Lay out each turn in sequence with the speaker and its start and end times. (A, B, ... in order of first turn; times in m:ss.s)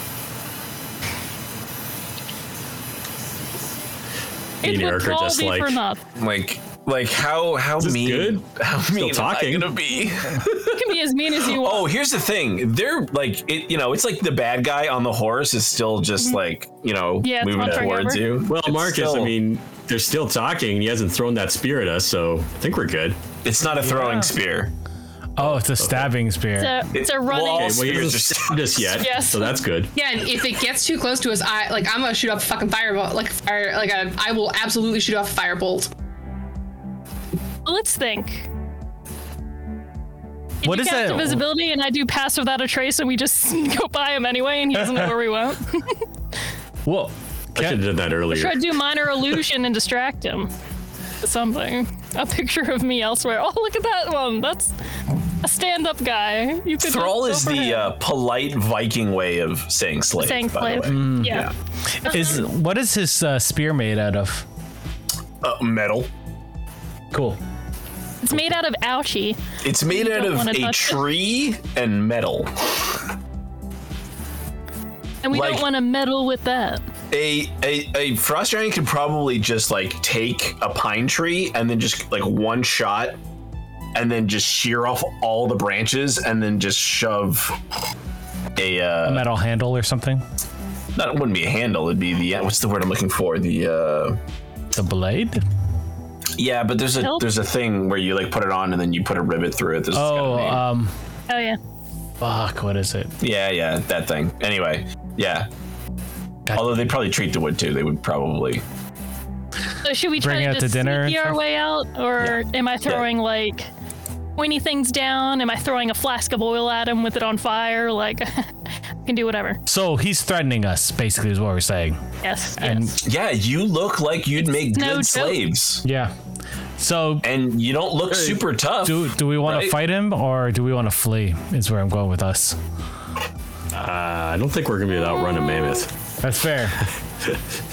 0:04.6-0:05.8 A
0:04.6-0:06.0 B
0:06.2-0:10.9 C
0:07.8-0:09.8 A
0:10.7-0:11.9 B
0:11.4-0:19.3 C
0:17.2-0:18.2 B
0:18.5-0:23.2 A
0:23.4-0:24.7 C
0:23.8-0:24.4 D
0:25.4-0:26.8 D
0:25.4-0:26.1 A
0:26.6-0:28.1 B
0:26.9-0:29.0 C
0:27.4-0:29.9 A
0:29.0-0:29.6 B
0:29.9-0:35.9 E
0:37.6-0:38.5 B
0:40.6-0:46.0 B
0:40.6-0:41.4 D
0:46.8-0:47.8 D
0:47.6-0:48.8 A
0:48.3-0:50.5 B
0:51.2-0:54.8 B
0:55.4-0:57.9 B
0:56.8-1:01.5 C
1:00.2-1:01.5 B
1:00.9-1:04.5 D
1:02.0-1:02.4 B
1:05.4-1:06.1 C
1:07.1-1:07.4 D
1:08.2-1:11.0 B
1:09.6-1:12.9 C
1:15.2-1:16.8 B
1:15.3-1:15.7 C
1:17.1-1:23.2 C
1:23.9-1:27.6 C
1:28.6-1:29.3 C
1:29.0-1:30.2 D
1:31.0-1:34.2 C
1:34.7-1:35.4 D
1:36.4-1:40.6 C
1:37.0-1:37.2 B
1:39.9-1:40.9 D
1:41.3-1:41.6 B
1:42.2-1:43.1 D
1:43.2-1:45.5 C
1:46.5-1:46.9 D
1:46.5-1:48.6 C
1:49.8-1:53.7 B
1:50.2-1:51.4 D
1:52.2-1:53.1 C
1:54.4-1:59.6 B
1:59.7-2:02.0 D
2:02.2-2:03.0 B
2:02.6-2:03.0 D
2:03.0-2:05.8 C
2:04.6-2:05.4 B
2:05.8-2:06.1 D
2:06.8-2:07.3 D
2:07.2-2:09.8 C
2:08.1-2:08.4 A
2:08.8-2:12.6 D
2:13.7-2:15.9 A
2:16.2-2:16.8 D